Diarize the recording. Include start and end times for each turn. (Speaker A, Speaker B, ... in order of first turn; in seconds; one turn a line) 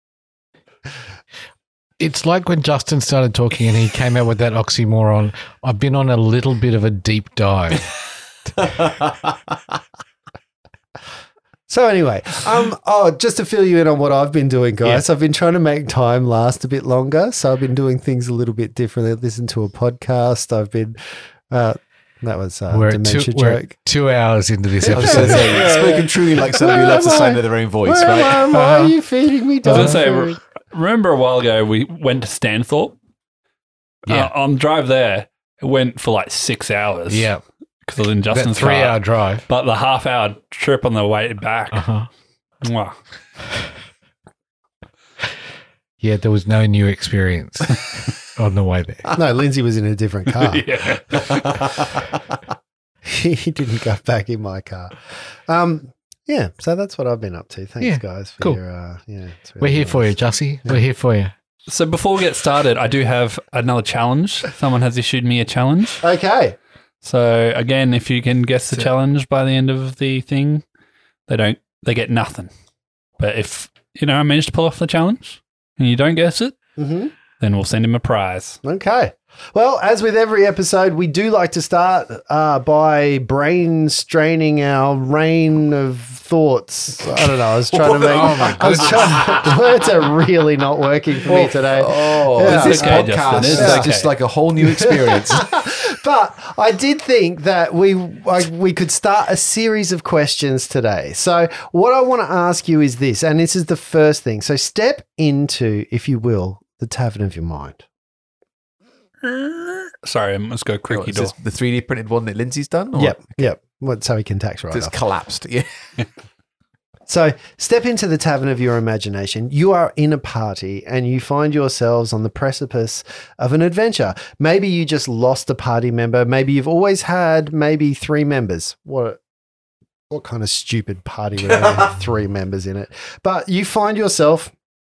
Speaker A: 2.0-7.9
Speaker B: 8.6-9.1
Speaker C: 11.7-21.0
Speaker C: 21.5-23.7
Speaker A: 22.7-25.7
Speaker C: 24.8-30.4
Speaker B: 24.9-28.5
Speaker A: 28.5-28.9
Speaker D: 29.6-33.0
Speaker A: 29.7-30.0
Speaker A: 34.0-34.3
Speaker D: 34.0-37.3
Speaker A: 37.1-37.4
Speaker D: 37.8-41.8
Speaker A: 38.3-39.4
Speaker A: 41.7-42.1
Speaker D: 42.6-42.9
Speaker A: 46.0-49.1
Speaker C: 49.1-50.6
Speaker D: 50.3-51.6
Speaker C: 53.0-60.1
Speaker A: 57.8-58.6
Speaker A: 59.6-61.3
Speaker D: 61.7-66.0
Speaker C: 66.0-66.5
Speaker D: 67.0-70.6
Speaker D: 71.3-72.5
Speaker D: 73.2-76.5
Speaker C: 76.8-77.1
Speaker D: 77.4-78.6
Speaker C: 78.6-93.9
Speaker B: 87.8-89.5
Speaker A: 87.9-89.4
Speaker B: 91.2-95.5
Speaker D: 92.4-94.1
Speaker C: 94.6-107.8
Speaker D: 109.2-111.3
Speaker B: 110.9-113.4
Speaker C: 113.0-114.9
Speaker B: 114.7-115.7
Speaker C: 117.1-129.2
Speaker C: 130.1-134.5